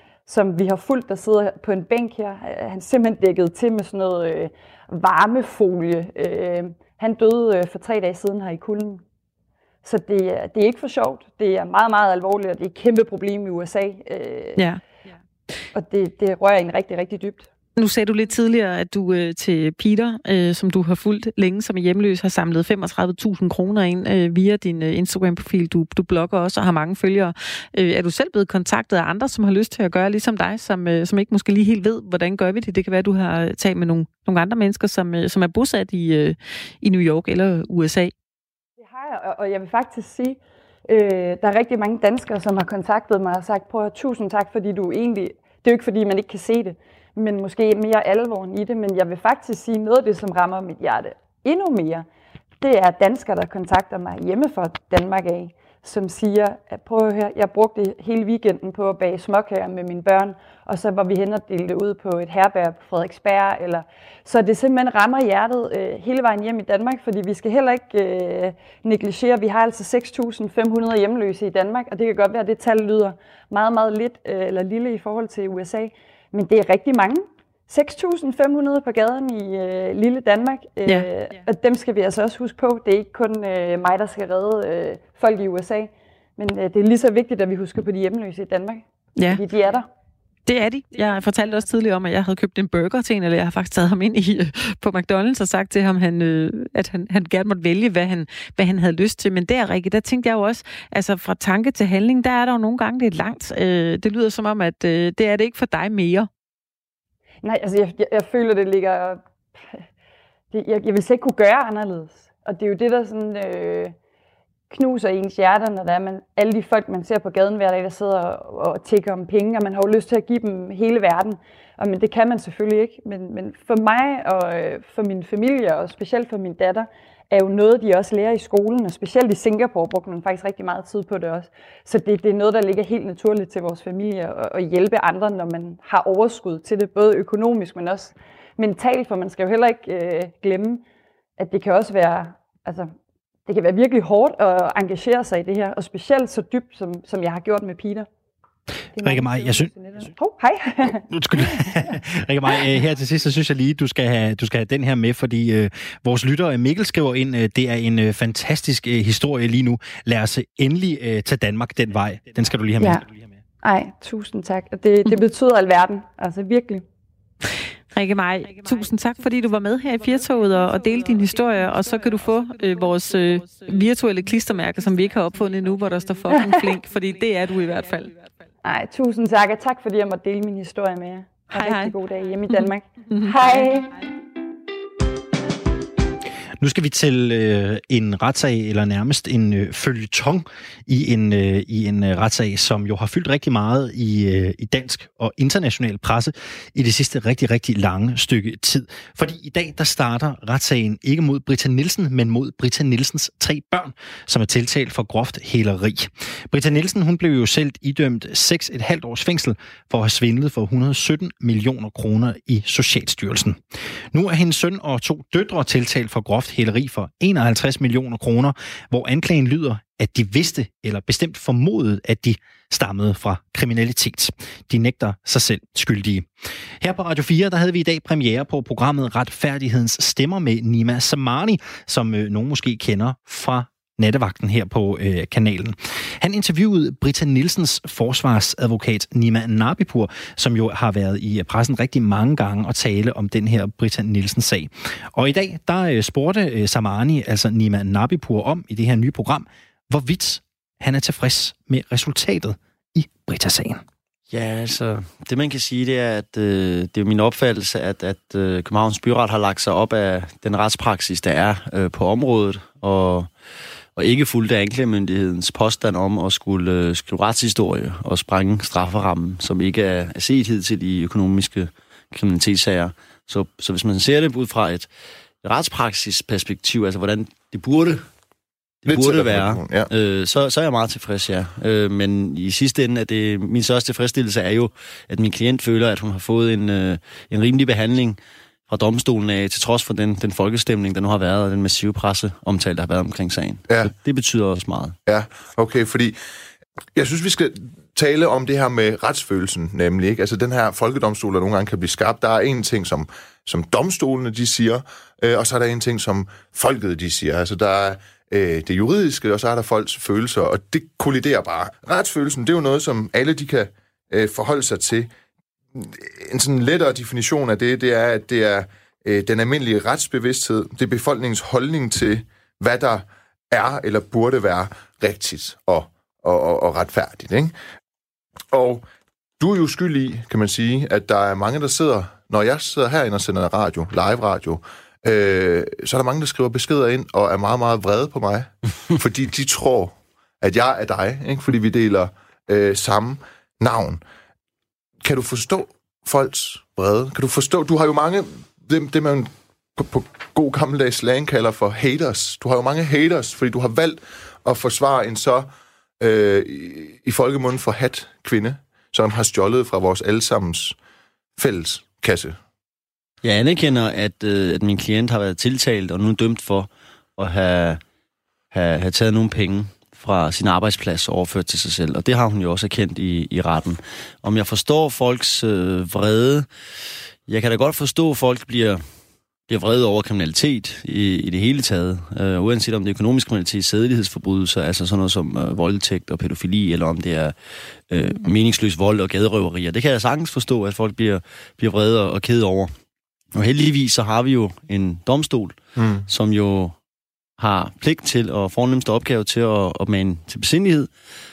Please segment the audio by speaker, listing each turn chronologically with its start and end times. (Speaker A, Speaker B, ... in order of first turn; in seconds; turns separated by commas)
Speaker A: 0.3-9.0, Speaker A: 9.8-14.6, Speaker A: 15.7-17.5, Speaker B: 17.8-38.1, Speaker A: 38.8-52.0, Speaker A: 52.6-89.9, Speaker B: 89.2-89.4, Speaker B: 90.5-106.3, Speaker A: 107.4-109.2, Speaker A: 110.5-113.9, Speaker A: 114.7-140.8, Speaker A: 141.4-142.9, Speaker A: 143.4-148.1, Speaker C: 149.0-150.1, Speaker A: 149.0-151.5, Speaker C: 151.0-163.3, Speaker A: 163.6-166.8, Speaker B: 167.9-178.1, Speaker A: 178.6-183.9, Speaker B: 181.5-181.9, Speaker B: 182.5-183.7, Speaker C: 186.6-213.6, Speaker C: 214.1-226.2, Speaker C: 226.8-253.8, Speaker D: 254.3-263.3, Speaker D: 263.9-274.9, Speaker D: 275.4-278.1, Speaker D: 278.8-294.9, Speaker E: 278.9-279.9, Speaker E: 295.1-296.2, Speaker E: 296.9-315.1, Speaker E: 315.7-327.5, Speaker E: 328.5-328.8, Speaker E: 329.4-344.0, Speaker E: 345.0-360.8, Speaker E: 361.4-362.4, Speaker D: 363.2-367.8, Speaker D: 368.5-376.5, Speaker D: 377.3-378.8, Speaker D: 379.5-387.3, Speaker D: 387.9-392.7, Speaker D: 393.3-395.6, Speaker E: 395.8-396.1, Speaker D: 396.1-396.7, Speaker D: 397.4-400.9